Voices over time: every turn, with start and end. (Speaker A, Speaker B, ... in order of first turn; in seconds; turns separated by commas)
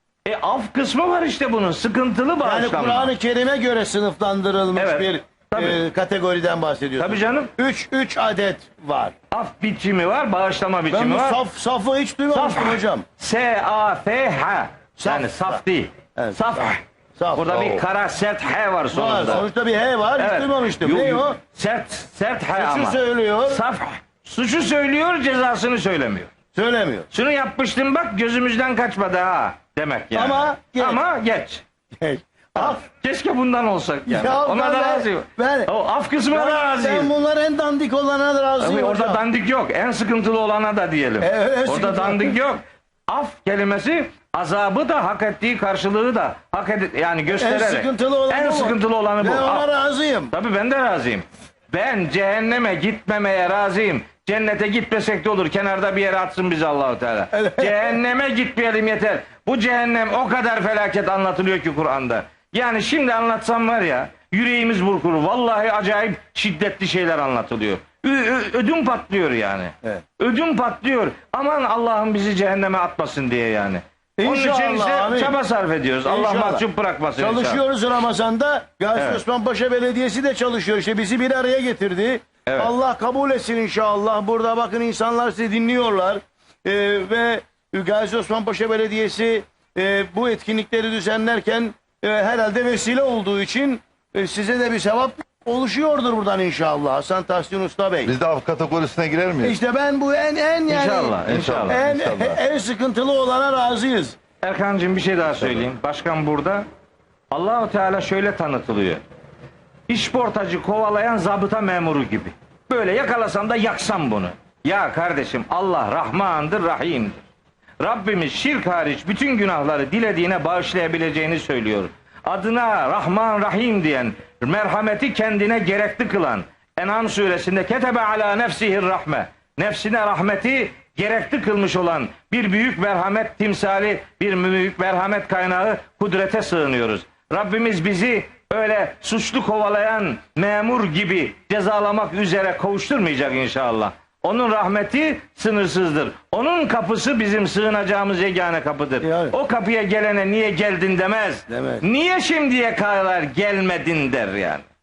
Speaker A: 0.2-3.1, Speaker B: 2.4-9.1, Speaker A: 4.8-5.8, Speaker A: 7.0-7.5, Speaker A: 9.3-11.4, Speaker B: 10.9-13.0, Speaker A: 12.3-16.8, Speaker B: 15.0-15.6, Speaker B: 16.2-17.8, Speaker A: 17.4-19.4, Speaker B: 18.9-21.4, Speaker A: 20.2-26.3, Speaker B: 22.6-23.6, Speaker B: 26.5-27.1, Speaker A: 27.1-31.6, Speaker B: 30.1-31.0, Speaker B: 32.0-32.8, Speaker A: 32.6-37.1, Speaker B: 34.1-35.7, Speaker B: 36.3-39.2, Speaker A: 38.6-49.7, Speaker B: 41.2-42.4, Speaker B: 47.3-50.3, Speaker A: 50.3-77.6, Speaker B: 74.2-75.3, Speaker B: 76.0-76.6, Speaker B: 77.2-98.1, Speaker A: 79.0-79.2, Speaker A: 82.5-82.7, Speaker C: 98.0-99.5, Speaker B: 99.4-104.2, Speaker A: 100.7-101.8, Speaker C: 101.2-102.4, Speaker A: 104.4-106.6, Speaker A: 107.3-109.0, Speaker A: 109.9-117.2, Speaker A: 117.8-154.6, Speaker B: 149.0-149.3, Speaker B: 151.5-151.8